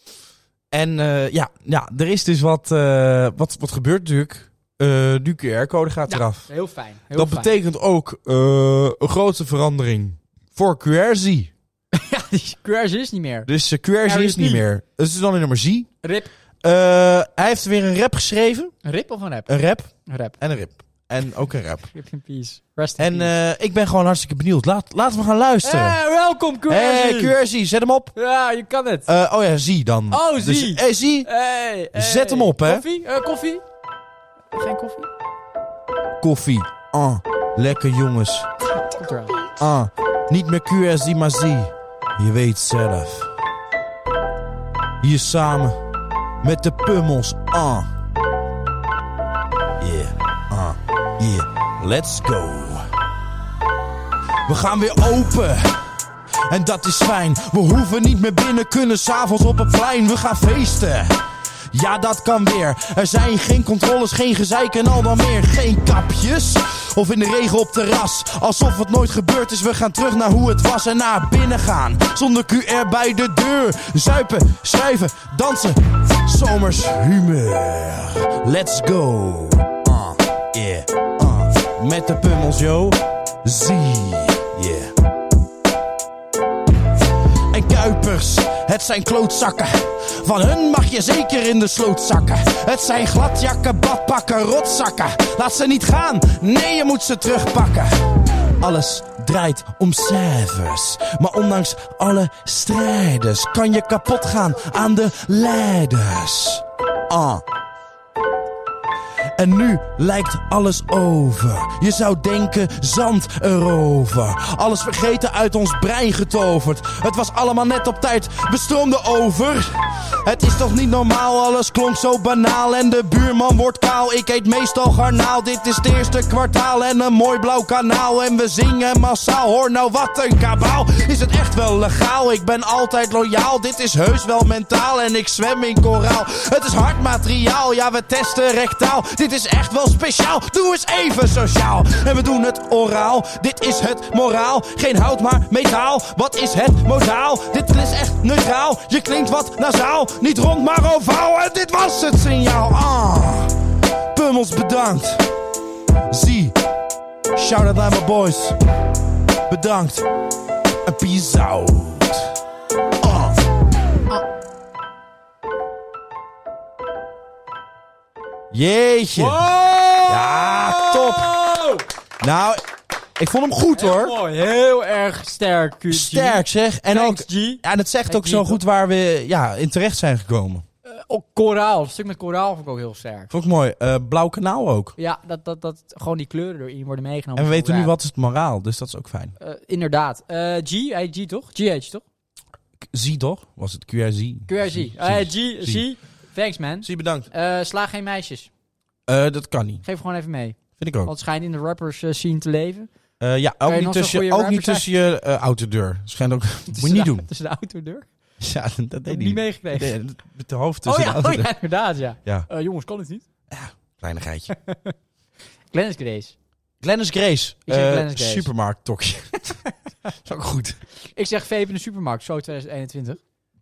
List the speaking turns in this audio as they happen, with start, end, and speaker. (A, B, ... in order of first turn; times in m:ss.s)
0:00.7-0:06.5 A
0:06.1-0:07.5 B
0:07.1-0:11.5 A
0:11.9-0:13.5 B
0:13.4-0:15.9 A
0:14.0-0:14.6 B
0:16.0-0:16.3 B
0:16.6-0:18.7 A
0:18.8-0:19.5 B
0:19.5-0:21.9 A
0:20.0-0:20.4 B
0:21.9-0:23.3 B
0:23.0-0:26.0 A
0:25.6-0:27.4 B
0:26.7-0:28.1 A
0:28.1-0:29.1 B
0:29.1-0:31.3 A
0:30.1-0:33.6 B
0:31.9-0:32.8 A
0:34.5-0:35.1 B
0:36.2-0:38.5 A
0:38.7-0:39.5 B
0:39.6-0:43.3 A
0:45.0-0:45.8 A
0:46.4-0:47.9 A
0:49.8-0:52.9 A
0:54.4-0:55.9 A
0:56.5-1:01.2 A
1:01.7-1:24.9 A
1:27.5-1:38.1 A
1:38.6-1:47.4 A
1:49.4-2:33.5 A
2:34.1-2:35.3 A
2:36.1-2:36.5 A
2:37.4-2:38.6 A
2:39.5-2:40.0 A
2:40.8-2:42.3 A
2:43.0-2:43.4 A
2:48.5-2:49.5 A
2:49.1-2:51.8 B
2:50.1-2:51.4 A
2:52.2-2:52.6 A
2:53.2-2:54.1 A
2:53.8-2:58.6 B
2:55.9-3:00.6 A
3:00.8-3:03.3 B
3:03.3-3:05.0 A
3:05.0-3:07.9 B
3:07.4-3:09.3 A
3:09.4-3:12.0 B
3:12.8-3:15.8 A
3:14.5-3:18.5 B
3:16.8-3:17.3 A
3:19.1-3:19.8 A
3:19.8-3:22.9 B
3:20.8-3:21.1 A
3:23.2-3:27.3 A
3:23.6-3:24.9 B
3:26.7-3:28.1 B
3:28.4-3:31.5 A
3:29.1-3:30.0 B
3:30.8-3:33.2 B
3:33.5-3:34.5 A
3:34.5-3:34.9 B
3:35.7-3:36.3 B
3:36.8-3:39.5 A
3:37.7-3:38.5 B
3:40.2-3:40.8 A
3:41.1-3:43.2 B